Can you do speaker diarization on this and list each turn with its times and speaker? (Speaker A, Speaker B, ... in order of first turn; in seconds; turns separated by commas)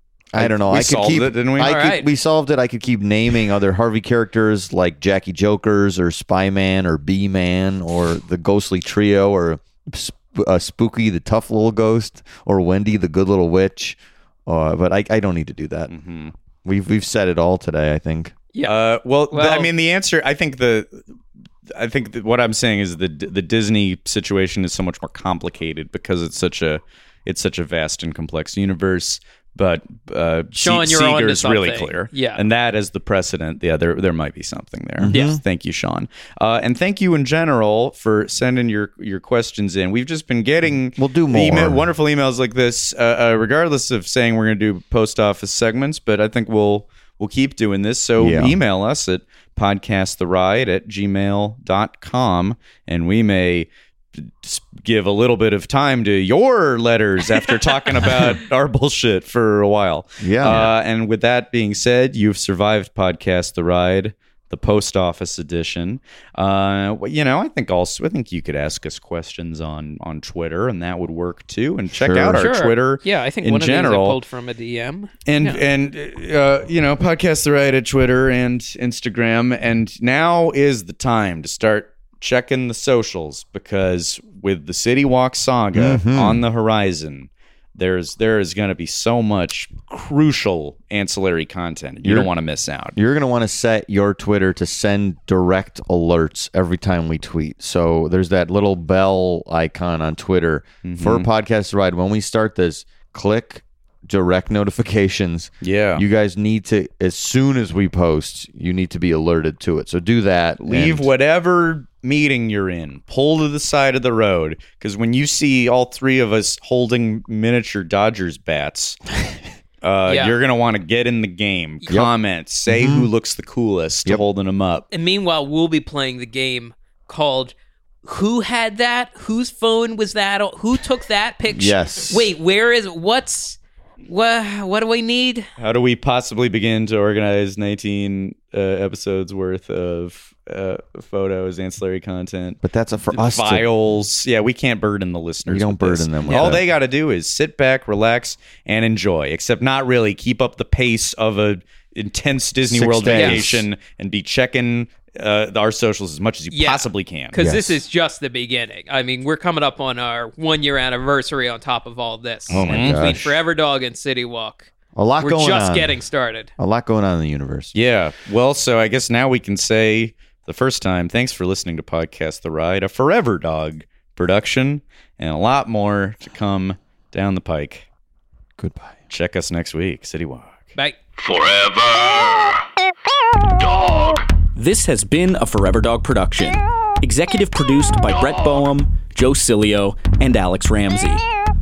Speaker A: 0.3-15.9, Speaker B: 0.3-1.8, Speaker C: 1.6-2.1, Speaker B: 15.9-16.3, Speaker A: 16.6-18.4, Speaker B: 18.6-21.1, Speaker C: 19.3-19.7, Speaker B: 21.7-74.2, Speaker C: 30.5-32.4, Speaker A: 35.0-35.4, Speaker C: 35.1-35.4, Speaker A: 40.7-41.9, Speaker A: 48.2-48.6, Speaker A: 60.2-60.7, Speaker A: 71.9-72.5, Speaker C: 72.3-75.6, Speaker B: 75.3-93.0, Speaker A: 85.7-86.4, Speaker A: 92.0-92.3, Speaker A: 93.0-111.1, Speaker B: 100.8-101.3, Speaker B: 105.6-106.0, Speaker B: 110.6-119.0, Speaker B: 119.8-124.9, Speaker C: 120.0-120.4, Speaker A: 122.7-123.1, Speaker C: 124.9-135.5, Speaker A: 131.5-132.3, Speaker B: 135.6-157.4, Speaker A: 142.6-143.7, Speaker A: 145.4-146.6, Speaker C: 146.3-146.6, Speaker A: 152.7-153.7, Speaker C: 153.1-153.4, Speaker C: 156.5-166.5, Speaker A: 157.4-157.8, Speaker A: 162.5-163.4, Speaker B: 162.6-163.1, Speaker A: 164.9-166.0, Speaker A: 166.6-167.7, Speaker B: 167.7-177.9, Speaker A: 178.6-178.9, Speaker B: 179.1-180.7, Speaker D: 184.6-191.2